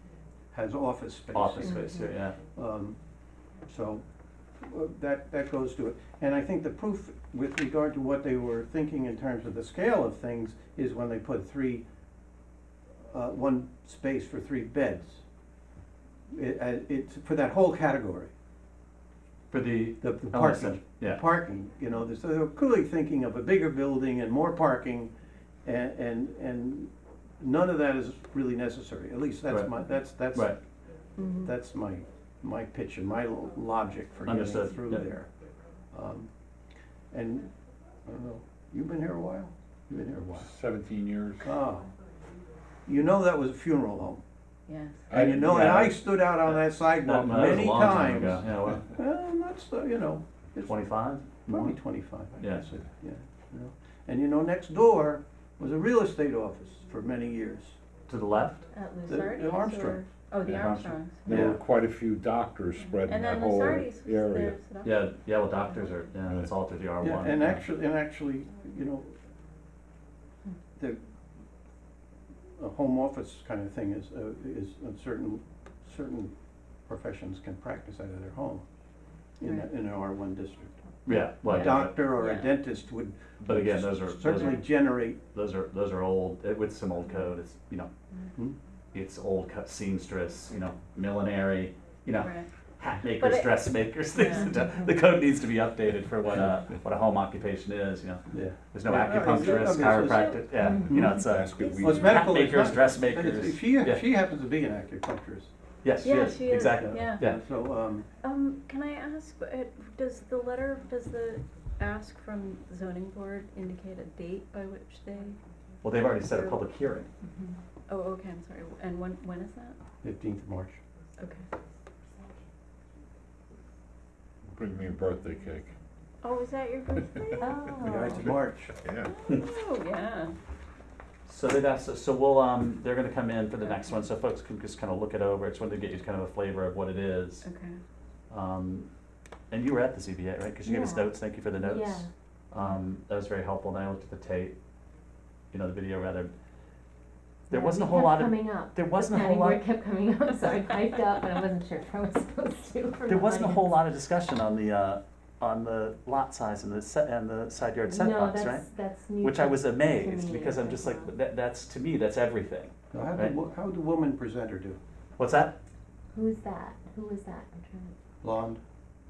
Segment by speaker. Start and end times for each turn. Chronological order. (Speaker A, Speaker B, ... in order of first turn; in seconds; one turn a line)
Speaker A: 0.5-2.0
Speaker B: 1.3-2.4
Speaker A: 2.5-3.0
Speaker A: 3.6-4.0
Speaker A: 4.6-11.8
Speaker A: 13.0-15.2
Speaker A: 16.3-18.3
Speaker B: 19.5-21.2
Speaker A: 20.0-25.1
Speaker A: 25.6-30.6
Speaker C: 31.2-31.5
Speaker A: 31.4-35.3
Speaker B: 34.2-35.1
Speaker A: 35.9-36.3
Speaker A: 37.1-37.5
Speaker A: 38.0-40.5
Speaker D: 40.4-41.5
Speaker A: 41.4-41.9
Speaker A: 42.9-44.2
Speaker C: 44.7-45.0
Speaker D: 45.1-45.9
Speaker A: 45.1-50.8
Speaker B: 45.4-48.9
Speaker B: 50.6-51.8
Speaker A: 51.5-57.8
Speaker B: 52.4-52.6
Speaker B: 58.1-58.7
Speaker E: 58.7-59.2
Speaker C: 58.9-61.2
Speaker A: 59.1-60.0
Speaker B: 60.4-61.6
Speaker D: 61.2-64.6
Speaker A: 61.2-61.6
Speaker C: 63.0-65.0
Speaker B: 64.8-67.6
Speaker A: 67.0-69.1
Speaker A: 70.8-71.0
Speaker A: 72.6-76.3
Speaker A: 76.9-78.6
Speaker A: 79.4-80.7
Speaker B: 81.0-82.0
Speaker A: 81.4-85.2
Speaker C: 81.5-82.5
Speaker B: 83.4-87.9
Speaker B: 88.9-104.0
Speaker C: 92.2-92.5
Speaker C: 93.2-93.6
Speaker C: 94.1-94.5
Speaker A: 98.3-101.2
Speaker C: 99.6-100.4
Speaker E: 100.6-101.0
Speaker D: 100.9-102.4
Speaker C: 101.6-101.9
Speaker A: 101.8-105.5
Speaker B: 105.8-107.4
Speaker C: 106.0-107.2
Speaker A: 106.7-108.1
Speaker C: 108.2-115.4
Speaker B: 115.8-117.1
Speaker C: 116.2-116.6
Speaker E: 117.2-117.5
Speaker C: 117.9-119.8
Speaker A: 120.0-120.8
Speaker D: 124.5-125.7
Speaker C: 126.2-127.5
Speaker E: 127.4-128.2
Speaker A: 127.8-128.7
Speaker D: 128.1-129.1
Speaker C: 129.0-130.3
Speaker B: 131.3-137.4
Speaker C: 137.4-137.8
Speaker B: 138.3-138.9
Speaker B: 139.5-144.6
Speaker E: 140.6-142.1
Speaker B: 145.5-146.3
Speaker E: 147.5-153.8
Speaker B: 147.5-149.6
Speaker B: 153.1-158.6
Speaker E: 157.9-161.1
Speaker B: 159.2-163.4
Speaker A: 162.9-164.8
Speaker B: 165.2-165.6
Speaker E: 166.1-167.9
Speaker A: 168.2-168.6